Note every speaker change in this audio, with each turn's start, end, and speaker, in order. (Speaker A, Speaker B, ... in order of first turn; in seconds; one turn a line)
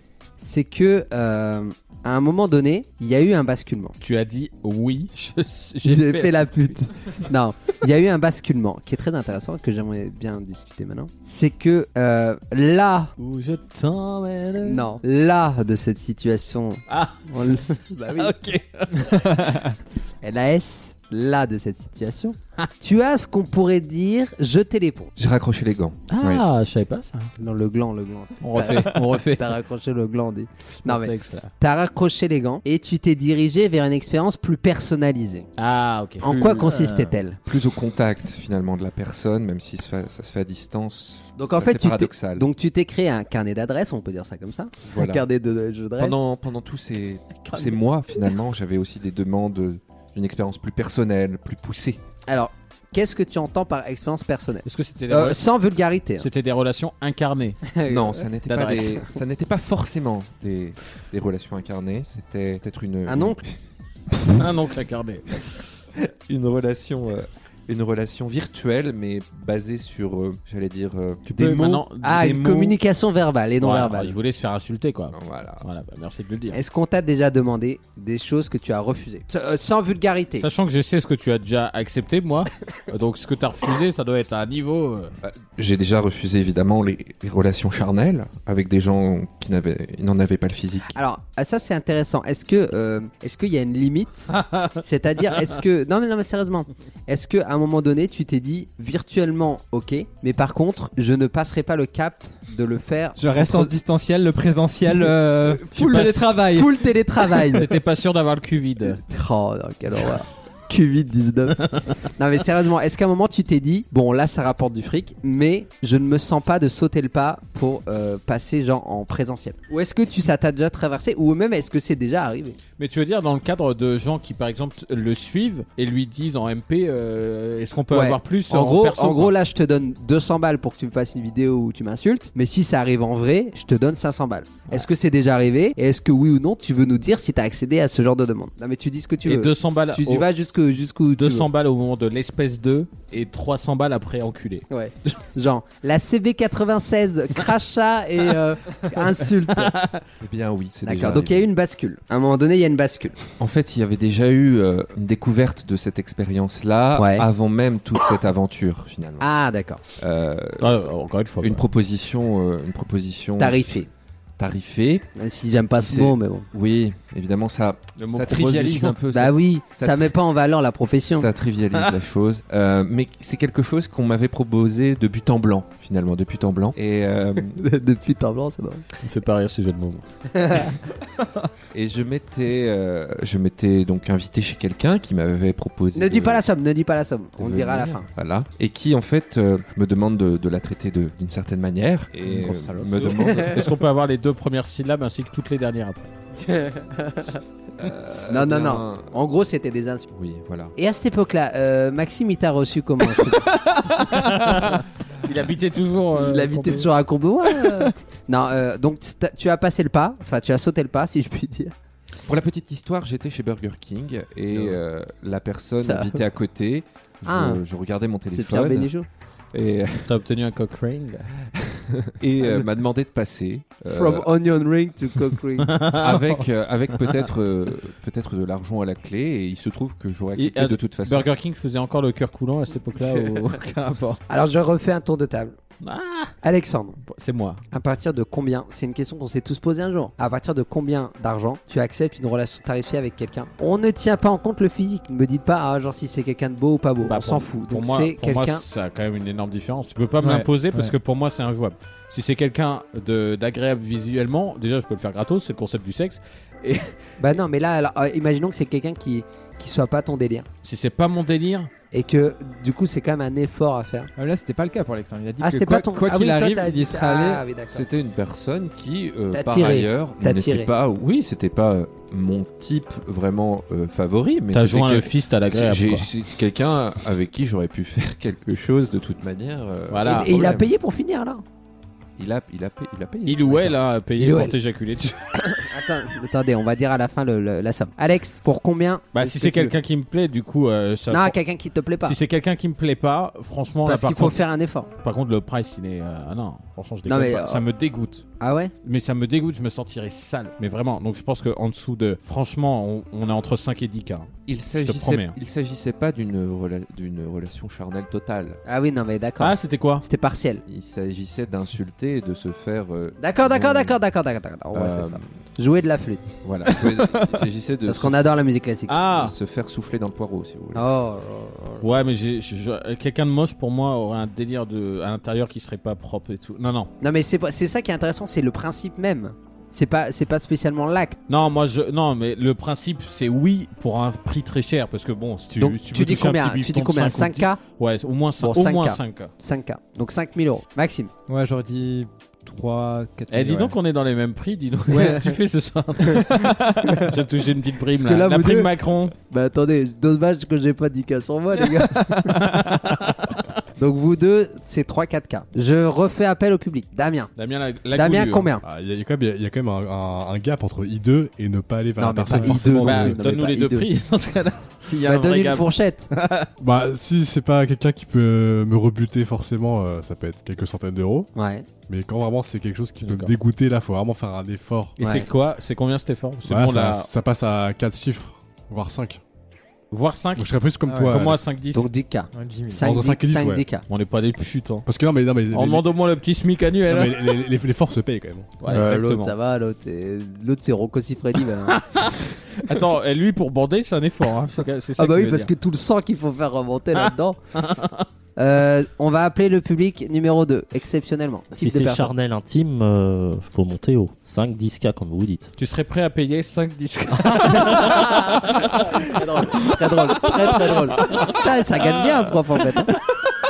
Speaker A: 0.4-3.9
Speaker B: 4.0-6.8
Speaker A: 5.8-13.1
Speaker B: 13.2-14.9
Speaker A: 14.6-18.4
Speaker B: 16.9-17.2
Speaker B: 18.1-19.4
Speaker A: 20.2-25.1
Speaker C: 25.1-26.4
Speaker B: 26.1-27.3
Speaker A: 27.4-35.5
Speaker B: 28.4-29.5
Speaker B: 30.8-31.5
Speaker B: 35.6-36.6
Speaker A: 36.2-37.4
Speaker C: 36.2-36.6
Speaker C: 37.5-42.5
Speaker A: 41.4-46.2
Speaker C: 44.8-45.2
Speaker C: 46.0-52.0
Speaker A: 47.4-47.8
Speaker A: 52.3-56.3
Speaker B: 54.6-55.4
Speaker B: 56.2-57.6
Speaker A: 57.7-58.3
Speaker C: 57.9-63.5
Speaker B: 58.5-59.1
Speaker A: 63.0-63.4
Speaker B: 64.3-65.5
Speaker C: 66.2-72.7
Speaker B: 71.3-72.4
Speaker A: 72.0-74.1
Speaker B: 73.6-76.6
Speaker C: 75.1-75.6
Speaker A: 76.5-80.5
Speaker B: 80.4-85.1
Speaker C: 85.2-90.9
Speaker A: 90.9-103.7
Speaker B: 94.3-94.7
Speaker D: 103.2-106.7
Speaker A: 105.0-107.7
Speaker B: 105.8-106.2
Speaker B: 107.4-109.0
Speaker A: 108.9-111.6
Speaker A: 112.2-122.6
Speaker B: 122.8-129.3
Speaker A: 127.9-141.5
Speaker B: 139.2-140.3
Speaker B: 141.2-144.6
Speaker A: 144.7-149.7
Speaker B: 149.5-150.0
Speaker C: 150.2-151.4
Speaker A: 150.8-153.2
Speaker C: 153.4-159.3
Speaker A: 156.9-157.3
Speaker A: 159.2-159.8
Speaker C: 160.0-160.8
Speaker B: 160.6-161.6
Speaker C: 161.4-163.8
Speaker A: 163.4-163.9
Speaker C: 164.4-165.1
Speaker A: 165.2-166.5
Speaker C: 165.8-170.1
Speaker B: 168.0-169.0
Speaker A: 169.1-171.3
Speaker C: 171.1-177.6
Speaker A: 177.4-178.8
Speaker B: 179.0-180.0
Speaker A: 180.3-180.7
Speaker C: 181.7-186.4
Speaker A: 185.9-188.1
Speaker C: 187.4-193.6
Speaker D: 192.3-193.0
Speaker A: 193.1-193.6
Speaker B: 193.4-196.1
Speaker A: 196.3-197.4
Speaker C: 197.8-199.1
Speaker A: 198.3-200.1
Speaker C: 200.1-200.7
Speaker A: 200.8-203.5
Speaker B: 204.2-206.9
Speaker A: 206.2-211.7
Speaker C: 212.2-218.9
Speaker A: 215.8-216.2
Speaker A: 217.2-217.6
Speaker A: 218.3-219.1
Speaker C: 219.5-220.1
Speaker B: 220.1-221.2
Speaker C: 221.5-224.3
Speaker A: 223.9-225.7
Speaker B: 225.6-226.4
Speaker C: 226.0-231.3
Speaker B: 230.3-234.2
Speaker A: 233.0-233.4
Speaker A: 234.3-235.6
Speaker B: 235.8-236.3
Speaker A: 236.4-237.0
Speaker B: 237.1-237.6
Speaker A: 237.7-248.6
Speaker B: 247.0-256.9
Speaker D: 250.2-250.9
Speaker A: 257.2-260.5
Speaker B: 260.6-261.7
Speaker A: 261.9-264.1
Speaker D: 264.2-267.4
Speaker A: 265.4-267.9
Speaker C: 267.7-280.7
Speaker A: 269.3-270.7
Speaker B: 274.5-276.1
Speaker B: 279.9-280.5
Speaker A: 280.0-281.4
Speaker C: 282.2-283.8
Speaker B: 283.2-285.6
Speaker A: 284.2-284.5
Speaker A: 285.6-289.7
Speaker B: 289.1-291.4
Speaker A: 291.1-292.2
Speaker B: 292.0-294.4
Speaker A: 293.9-294.9
Speaker B: 295.0-298.2
Speaker A: 297.1-297.6
Speaker A: 298.4-298.7
Speaker B: 298.8-305.4
Speaker C: 304.5-308.6
Speaker A: 308.6-310.6
Speaker B: 309.4-310.0
Speaker C: 310.6-314.0
Speaker A: 313.2-316.3
Speaker C: 314.7-315.4
Speaker C: 316.4-318.2
Speaker D: 316.7-317.3
Speaker A: 317.9-319.1
Speaker B: 318.9-319.3
Speaker C: 319.1-320.9
Speaker A: 320.7-321.8
Speaker B: 321.8-326.9
Speaker A: 327.0-331.2
Speaker B: 331.3-339.3
Speaker A: 335.5-337.6
Speaker A: 338.4-341.1
Speaker D: 341.3-343.7
Speaker B: 343.3-349.1
Speaker A: 344.9-345.3
Speaker D: 346.3-346.9
Speaker A: 347.9-348.7
Speaker A: 349.3-352.5
Speaker B: 352.3-353.3
Speaker A: 353.8-357.3
Speaker B: 357.4-358.5
Speaker A: 357.9-358.6
Speaker E: 358.6-363.2
Speaker A: 362.0-363.9
Speaker B: 362.6-366.5
Speaker A: 365.0-366.1
Speaker E: 366.6-371.3
Speaker A: 371.3-371.7
Speaker E: 371.8-374.9
Speaker B: 373.0-373.3
Speaker B: 375.0-377.1
Speaker A: 375.0-375.3
Speaker E: 376.4-379.2
Speaker B: 379.9-381.8
Speaker E: 380.4-381.4
Speaker D: 380.9-381.3
Speaker A: 381.7-383.8
Speaker D: 382.3-382.9
Speaker E: 382.8-383.6
Speaker B: 383.9-384.9
Speaker E: 384.9-385.9
Speaker B: 385.5-387.4
Speaker E: 386.8-389.0
Speaker B: 388.6-389.3
Speaker A: 388.7-391.8
Speaker B: 391.7-395.5
Speaker A: 395.0-397.4
Speaker B: 396.9-398.0
Speaker A: 398.4-402.1
Speaker F: 401.5-405.5
Speaker B: 405.6-411.4
Speaker A: 407.3-408.5
Speaker A: 409.1-412.9